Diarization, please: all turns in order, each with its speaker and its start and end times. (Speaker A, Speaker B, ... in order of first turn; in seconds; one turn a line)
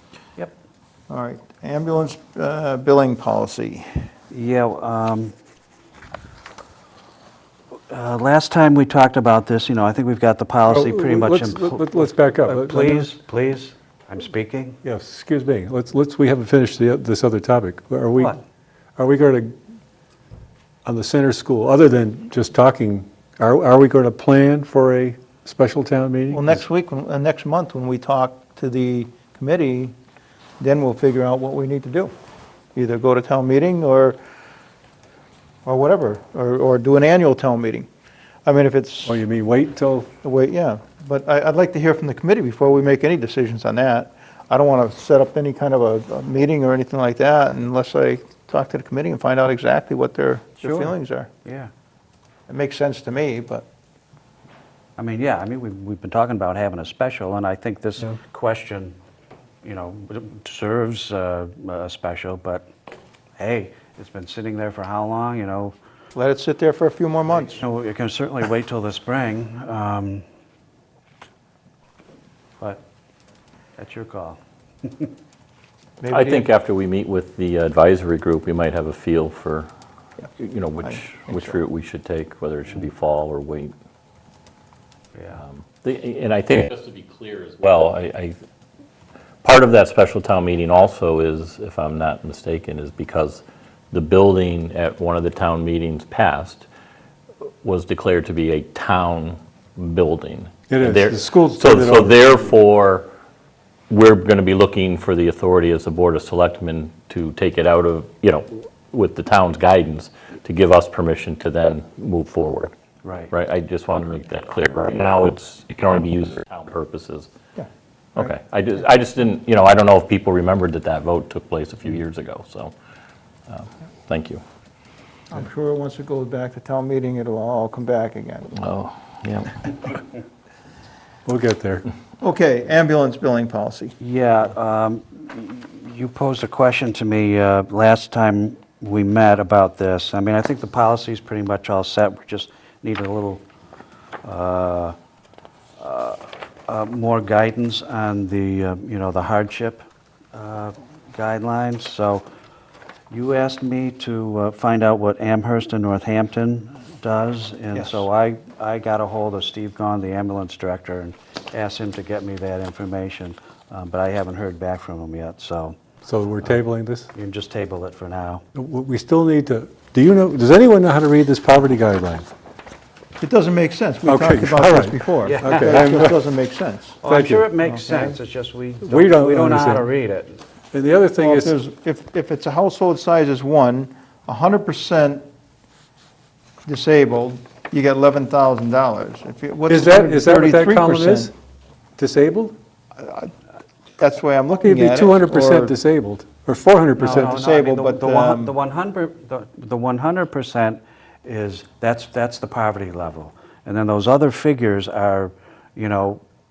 Speaker A: 1.1-3.9
Speaker B: 4.3-5.3
Speaker B: 7.9-14.8
Speaker C: 10.7-13.1
Speaker C: 14.8-18.4
Speaker C: 19.0-19.6
Speaker C: 20.9-26.6
Speaker A: 26.3-29.9
Speaker A: 30.6-32.1
Speaker A: 32.7-34.2
Speaker A: 35.7-37.9
Speaker A: 38.5-39.2
Speaker C: 39.0-40.1
Speaker A: 40.2-51.3
Speaker B: 50.6-50.9
Speaker B: 51.5-51.7
Speaker A: 52.5-53.7
Speaker B: 55.0-59.0
Speaker B: 59.6-62.7
Speaker B: 63.4-65.8
Speaker A: 66.2-67.6
Speaker B: 67.3-70.2
Speaker B: 73.8-75.1
Speaker A: 76.0-76.5
Speaker D: 76.1-79.7
Speaker D: 80.4-83.7
Speaker A: 80.8-81.6
Speaker B: 85.2-85.4
Speaker D: 85.4-88.4
Speaker D: 89.4-96.7
Speaker D: 97.6-103.1
Speaker C: 100.7-102.2
Speaker D: 103.9-112.7
Speaker B: 113.0-113.3
Speaker D: 113.3-117.3
Speaker A: 117.6-118.3
Speaker D: 118.2-122.7
Speaker D: 123.5-124.4
Speaker A: 125.3-128.6
Speaker D: 128.6-129.9
Speaker C: 131.2-131.8
Speaker A: 132.2-133.9
Speaker B: 134.0-143.4
Speaker B: 144.2-145.0
Speaker B: 145.8-152.2
Speaker B: 153.1-165.8
Speaker A: 157.7-158.1
Speaker C: 166.1-167.1
Speaker B: 167.1-168.4
Speaker C: 168.6-172.3
Speaker A: 173.2-177.0
Speaker C: 174.1-176.1
Speaker B: 175.2-176.0
Speaker B: 177.0-180.4
Speaker C: 177.1-177.5
Speaker A: 177.7-178.2
Speaker C: 178.8-179.9
Speaker C: 180.7-181.5
Speaker A: 181.2-185.2
Speaker A: 186.7-191.3
Speaker C: 189.7-191.3
Speaker C: 192.0-192.6
Speaker A: 193.0-193.3
Speaker A: 194.0-195.7
Speaker C: 194.6-197.3
Speaker B: 196.9-206.2
Speaker A: 197.1-198.5